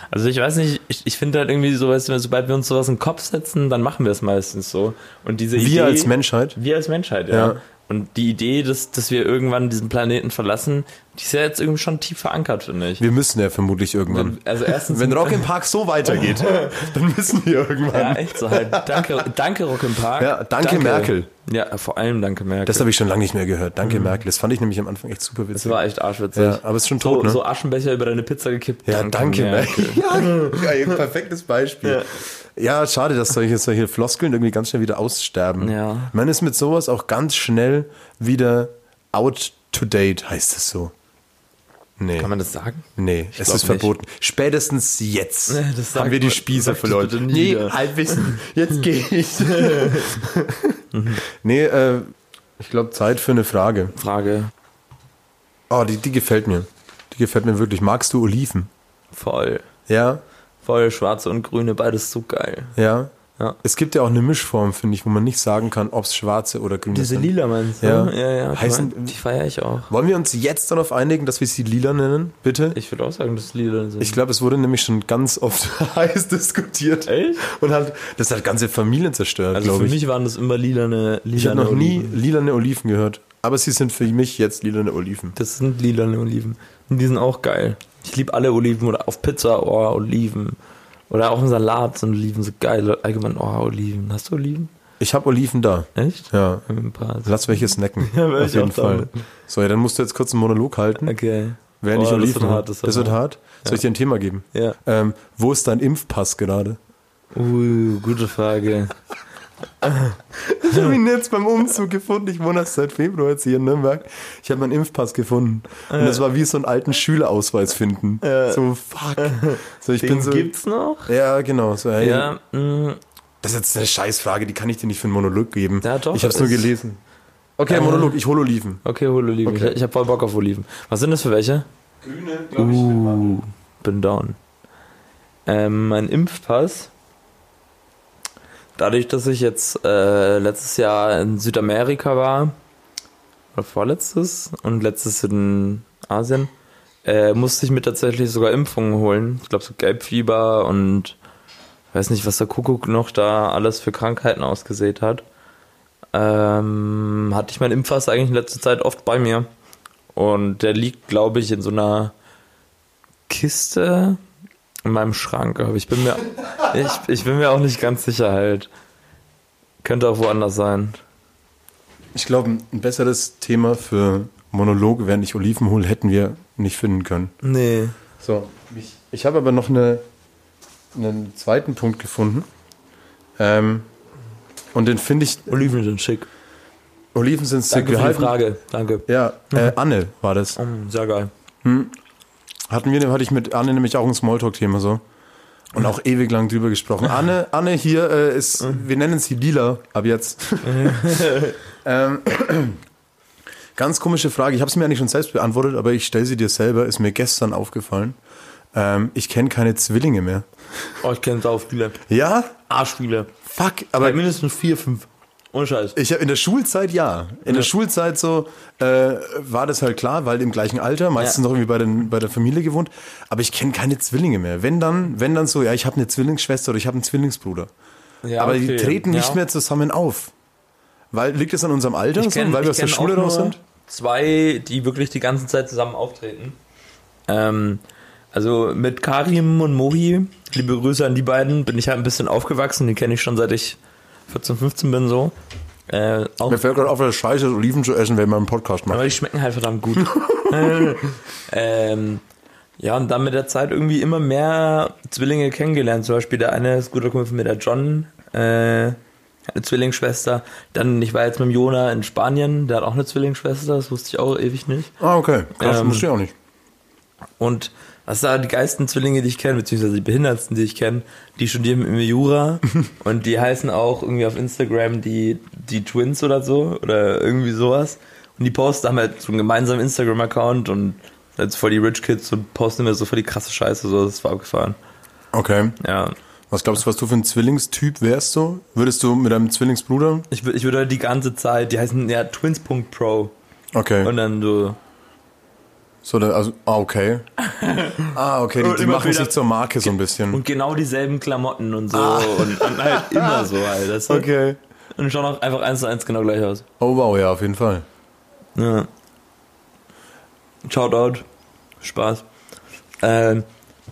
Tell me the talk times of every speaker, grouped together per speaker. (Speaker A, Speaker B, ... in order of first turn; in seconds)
Speaker A: 0.1-13.0, 14.1-15.4, 16.2-16.7, 17.9-22.9, 25.5-30.9, 31.8-32.1, 35.6-36.1, 42.2-43.9, 45.5-48.4, 49.6-50.1, 50.9-51.2, 54.0-54.5, 59.1-59.6, 60.6-62.8, 66.9-69.9, 72.8-74.2, 77.1-77.4, 79.5-82.2, 85.4-90.6, 91.1-94.7, 96.0-99.2, 101.1-103.8, 107.3-109.0, 109.8-110.2, 115.9-116.2, 118.2-118.6, 119.2-121.1, 122.0-123.0, 125.8-126.7, 127.7-128.2, 128.8-131.7, 132.6-134.4, 135.5-136.9, 138.8-142.6, 143.5-146.5, 147.0-151.2, 151.9-155.2, 156.1-159.5, 160.1-162.1, 163.3-164.2, 164.8-168.7, 169.8-171.0, 177.4-178.0, 185.5-186.3, 187.7-189.8, 190.6-191.3, 200.6-201.6, 211.0-212.0, 212.7-213.3, 214.0-215.9, 228.2-229.4, 232.2-236.6, 237.3-237.8, 238.3-245.3, 245.9-246.6, 248.9-252.2, 252.8-259.0, 259.5-264.9, 265.6-266.1, 267.4-284.8, 285.8-286.1, 290.3-293.3, 294.0-294.8, 297.4-304.3, 305.0-306.7, 308.6-308.9, 310.6-311.2, 311.8-312.2, 313.0-313.5
Speaker B: 5.5-6.6, 7.3-7.6, 13.0-19.2, 20.2-21.3, 22.7-25.8, 26.3-27.4, 28.9-40.9, 42.0-42.3, 43.0-53.9, 55.7-58.7, 59.9-60.2, 62.8-69.2, 69.9-72.8, 74.0-80.0, 81.4-85.3, 95.0-96.7, 97.2-101.2, 101.8-106.8, 110.4-120.5, 121.1-122.3, 123.4-127.0, 127.6-128.8, 129.4-129.8, 132.0-133.4, 172.1-177.3, 178.2-180.0, 180.9-182.5, 183.4-183.9, 184.7-185.6, 187.1-188.4, 189.1-190.6, 191.6-191.9, 192.7-195.0, 195.7-202.8, 203.8-208.2, 208.7-210.9, 212.1-212.5, 213.4-214.2, 215.9-227.7, 228.4-230.3, 231.1-233.6, 246.5-249.1, 250.0-250.6, 265.0-266.3, 285.3-285.8, 286.5-290.3, 293.7-294.1, 296.0-297.3, 298.1-300.4, 301.9-303.6, 304.1-304.6, 306.8-307.9